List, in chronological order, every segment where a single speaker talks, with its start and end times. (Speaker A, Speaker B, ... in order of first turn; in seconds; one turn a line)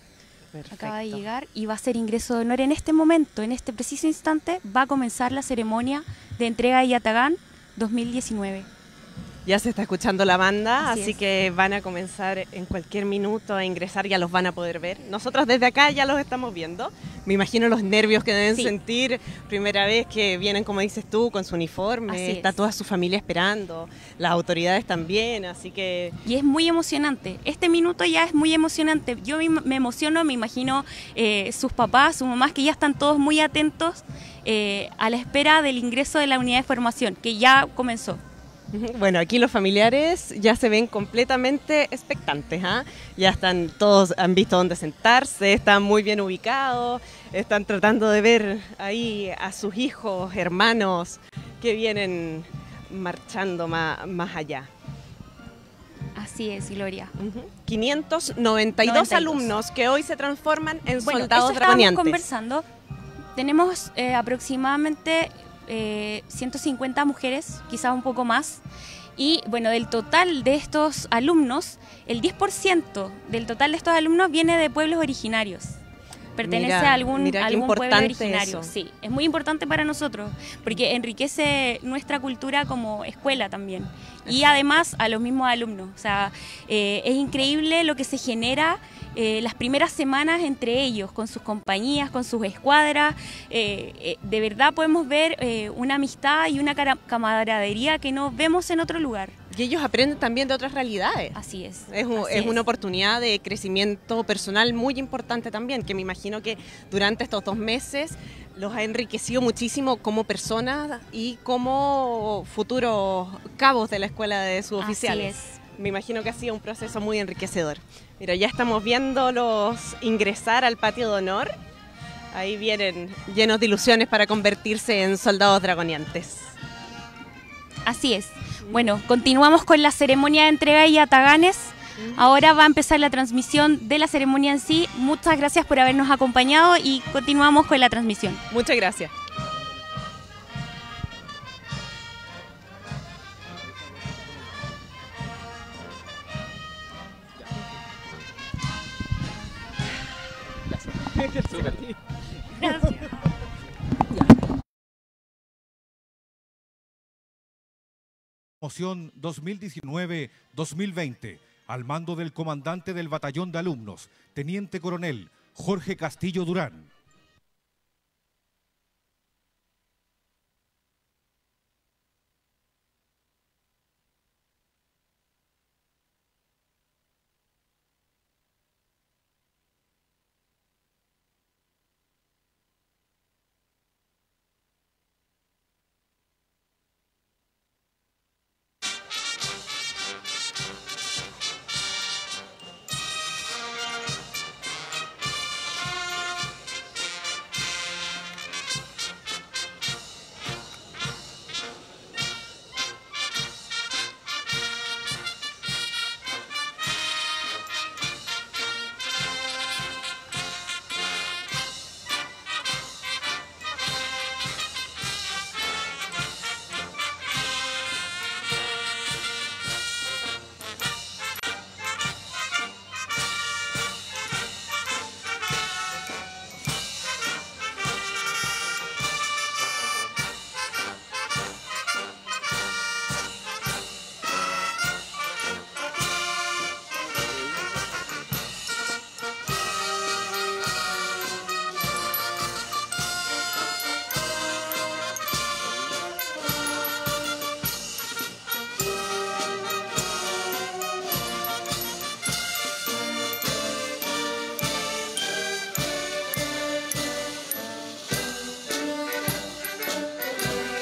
Speaker A: 0.5-1.2
Speaker B: 0.7-8.7
Speaker A: 9.4-26.1
Speaker B: 10.8-11.2
Speaker B: 22.1-22.5
Speaker B: 26.2-38.2
Speaker A: 38.7-54.7
Speaker B: 56.1-57.1
Speaker A: 57.2-62.2
Speaker B: 58.8-59.5
Speaker B: 61.0-62.6
Speaker B: 63.4-68.6
Speaker B: 69.2-75.8
Speaker B: 76.4-99.3
Speaker A: 76.4-78.7
Speaker A: 84.2-84.6
Speaker A: 99.5-121.5
Speaker B: 101.3-102.6
Speaker B: 114.8-115.6
Speaker A: 122.3-126.5
Speaker B: 127.8-138.4
Speaker A: 132.0-132.2
Speaker A: 138.5-139.1
Speaker A: 151.2-151.9
Speaker C: 158.6-166.9